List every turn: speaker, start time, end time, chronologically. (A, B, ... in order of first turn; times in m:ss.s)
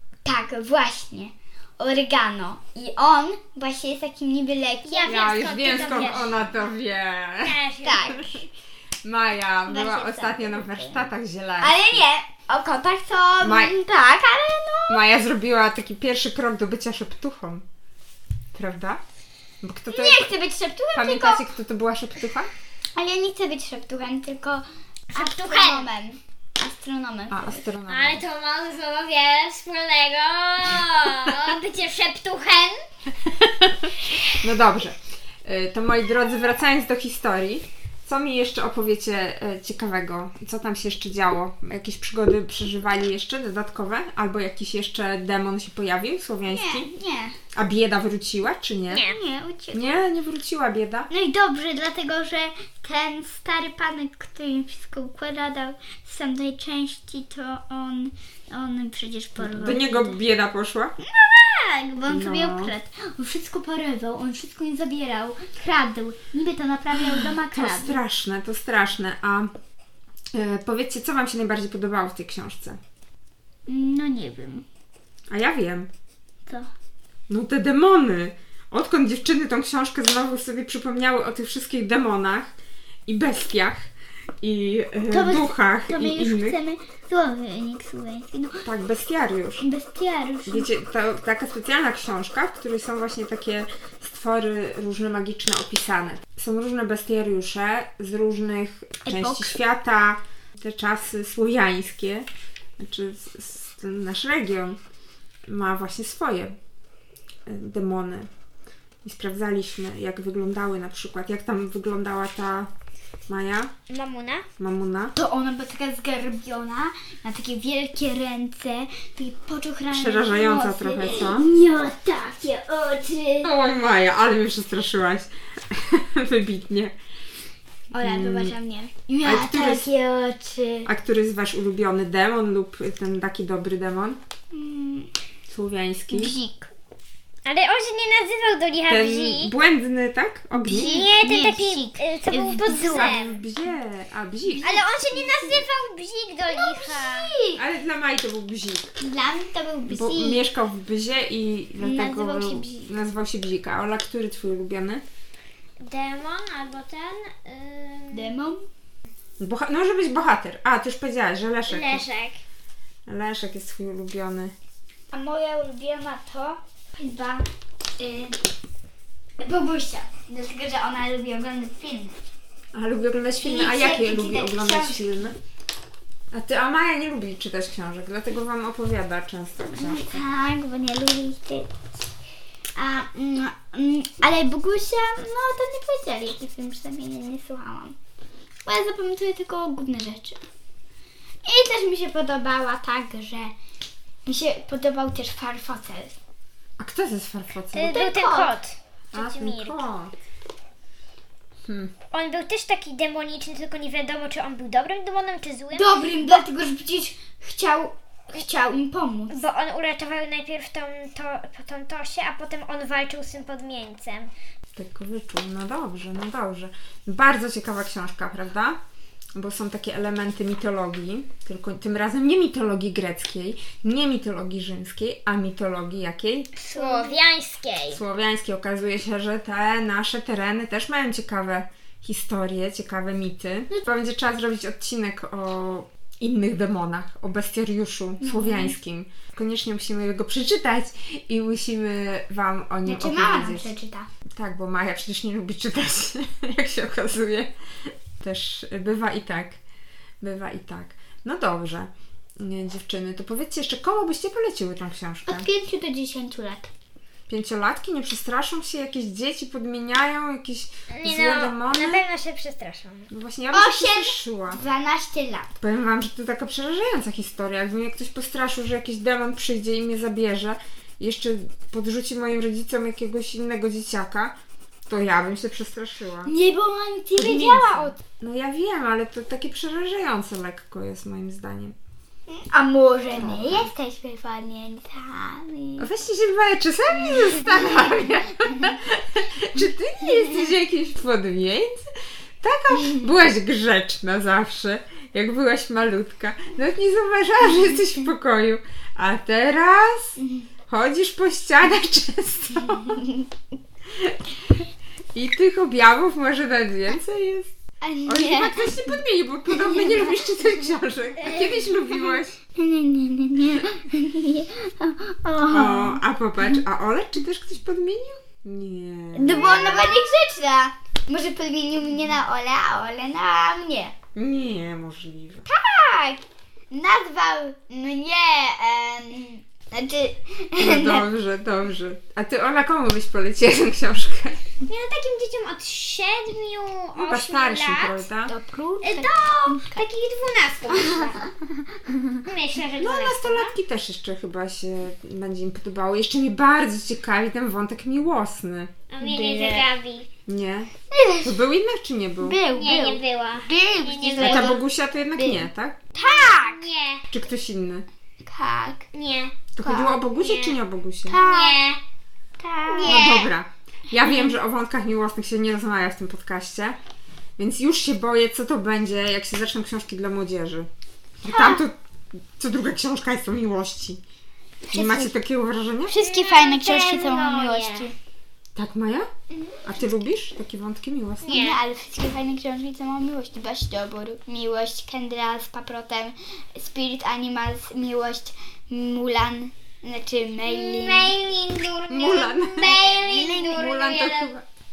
0:00.2-0:05.3 A
0:04.8-0:06.4 B
0:05.0-0:07.6 C
0:07.4-0:08.3 B
0:07.8-0:08.4 A
0:08.1-0:08.4 C
0:09.0-0:12.0 C
0:09.7-0:11.1 A
0:11.6-0:15.0 A
0:13.4-0:13.8 C
0:14.9-0:17.6 C
0:18.5-0:19.0 C
0:19.6-0:20.3 C
0:19.9-0:21.4 A
0:20.9-0:22.5 C
0:23.0-0:27.6 A
0:25.1-0:25.9 B
0:27.3-0:28.2 C
0:27.9-0:32.8 B
0:33.2-0:46.9 C
0:46.5-0:47.4 A
0:47.5-0:49.0 C
0:48.9-0:49.2 B
0:49.0-0:50.0 A
0:49.7-0:51.1 C
0:51.1-1:00.2 A
0:59.4-1:00.9 C
1:01.0-1:08.0 A
1:02.1-1:02.7 C
1:07.0-1:09.5 C
1:10.3-1:12.8 C
1:13.7-1:14.6 A
1:15.3-1:15.9 C
1:17.3-1:22.5 C
1:23.0-1:23.9 C
1:24.4-1:26.6 C
1:25.1-1:28.6 A
1:28.6-1:29.6 C
1:29.6-1:30.7 A
1:30.4-1:42.3 C
1:39.0-1:39.5 A
1:42.8-1:44.8 C
1:45.5-1:46.5 C
1:47.4-1:48.3 C
1:49.0-1:52.7 C
1:53.3-1:53.7 C
1:53.9-1:54.5 B
1:54.6-1:55.1 C
1:55.1-2:03.5 A
1:59.9-2:01.5 C
2:03.4-2:06.9 C
2:07.9-2:10.9 A
2:08.0-2:08.6 C
2:09.2-2:09.9 C
2:10.8-2:14.2 C
2:14.5-2:15.1 A
2:15.5-2:16.3 C
2:16.1-2:16.7 A
2:17.4-2:19.5 B
2:18.9-2:21.1 C
2:20.6-2:23.1 A
2:20.7-2:23.4 B
2:22.9-2:24.7 C
2:24.5-2:25.6 A
2:24.6-2:27.3 B
2:26.5-2:27.6 A
2:27.6-2:29.0 C
2:29.0-2:30.4 A
2:29.9-2:35.0 C
2:31.8-2:33.0 A
2:35.8-2:38.3 B
2:38.1-2:38.6 A
2:39.4-2:42.0 C
2:41.7-2:42.4 B
2:43.1-2:44.5 C
2:45.1-2:47.4 A
2:48.0-2:48.4 A
2:49.4-2:52.2 A
2:52.7-2:55.3 C
2:53.4-2:55.2 A
2:56.3-3:00.2 C
2:59.7-3:01.7 A
3:02.8-3:08.0 A
3:08.6-3:10.4 A
3:11.4-3:13.5 A
3:14.2-3:16.2 A
3:16.8-3:18.0 C
3:17.7-3:19.8 B
3:17.8-3:18.5 A
3:19.1-3:20.1 C
3:21.6-3:21.9 C
3:22.1-3:26.4 B
3:25.7-3:29.4 A
3:29.3-3:34.3 B
3:34.7-3:38.8 C
3:39.3-3:46.5 C
3:46.6-3:47.2 A
3:46.6-3:48.0 B
3:47.9-4:03.7 C
3:58.2-3:58.7 A
4:02.8-4:04.1 A
4:04.3-4:09.6 C
4:10.2-4:15.4 C
4:15.2-4:16.7 A
4:17.3-4:22.0 C
4:20.9-4:23.1 B
4:23.1-4:24.6 C
4:23.5-4:25.5 A
4:25.6-4:34.3 C
4:34.9-4:36.3 C
4:36.2-4:38.0 A
4:37.1-4:41.7 C
4:42.3-4:45.9 A
4:43.1-4:43.7 C
4:45.8-4:51.9 C
4:52.4-5:00.2 C
5:00.2-5:00.5 A
5:00.7-5:03.0 C
5:02.9-5:03.3 A
5:03.8-5:07.5 C
5:07.8-5:09.0 A
5:08.0-5:12.4 C
5:09.5-5:10.2 A
5:11.2-5:12.2 B
5:12.5-5:16.0 A
5:15.5-5:19.9 C
5:19.1-5:23.9 A
5:24.1-5:25.4 C
5:25.4-5:31.1 A
5:30.6-5:34.4 C
5:34.6-5:38.1 B
5:37.0-5:38.3 C
5:38.3-5:39.8 A
5:38.8-5:41.3 B
5:40.7-5:42.2 A
5:42.2-5:43.5 B
5:42.8-5:48.7 C
5:48.9-5:50.1 B
5:49.0-5:49.7 A
5:50.2-5:50.7 C
5:50.9-5:51.4 A
5:51.2-5:52.4 C
5:52.2-5:54.6 A
5:52.5-5:54.6 B
5:54.2-5:55.8 C
5:55.1-5:56.7 A
5:56.0-5:57.0 B
5:57.1-5:57.8 C
5:58.2-5:58.8 A
5:58.9-5:59.4 B
5:59.5-6:01.2 C
5:59.6-6:00.0 A
6:00.2-6:00.6 B
6:01.1-6:01.6 A
6:01.1-6:01.8 B
6:02.4-6:03.3 A
6:02.7-6:03.3 B
6:02.8-6:06.8 C
6:07.4-6:10.7 C
6:11.2-6:14.0 C
6:11.3-6:11.6 A
6:14.6-6:15.1 A
6:14.7-6:16.0 C
6:15.9-6:17.9 A
6:15.9-6:17.9 B
6:18.6-6:19.1 C
6:19.3-6:19.6 A
6:19.6-6:21.4 C
6:21.2-6:21.6 B
6:21.3-6:31.1 A
6:30.4-6:34.3 B
6:31.9-6:34.4 C
6:33.0-6:33.6 A